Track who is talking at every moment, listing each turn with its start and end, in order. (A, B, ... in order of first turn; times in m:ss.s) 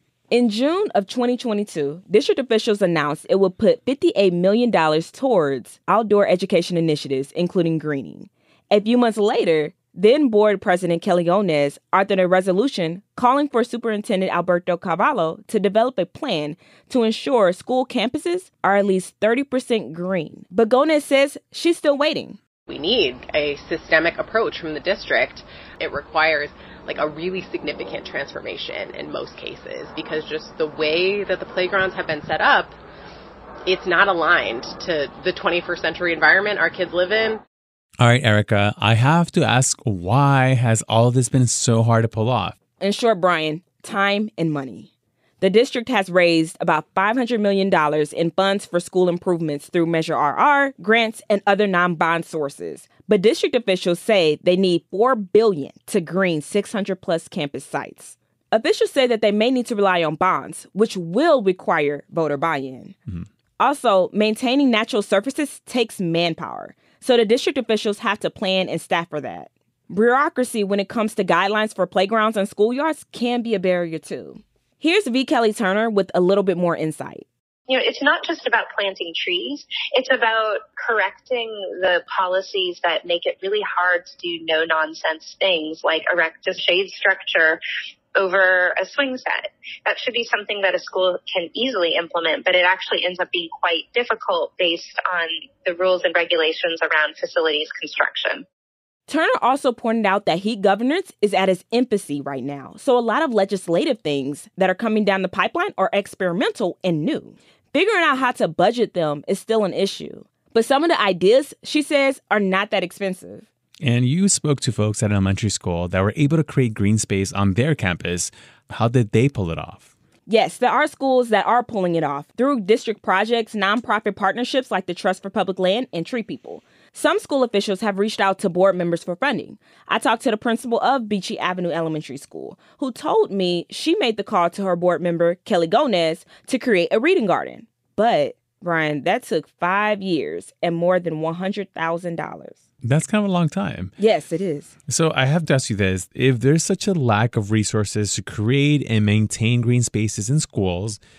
0:00.3-0:22.4 A
0:22.7-0:32.8 B
0:33.6-0:37.4 B
0:38.0-0:42.6 C
0:42.8-0:44.9 A
0:45.4-1:03.0 A
1:03.6-1:17.3 A
1:17.7-1:27.6 D
1:28.2-1:38.4 D
1:39.1-1:53.5 A
1:53.8-1:59.9 C
2:00.3-2:22.6 A
2:22.8-2:23.9 C
2:24.0-2:24.7 A
2:24.9-2:31.0 C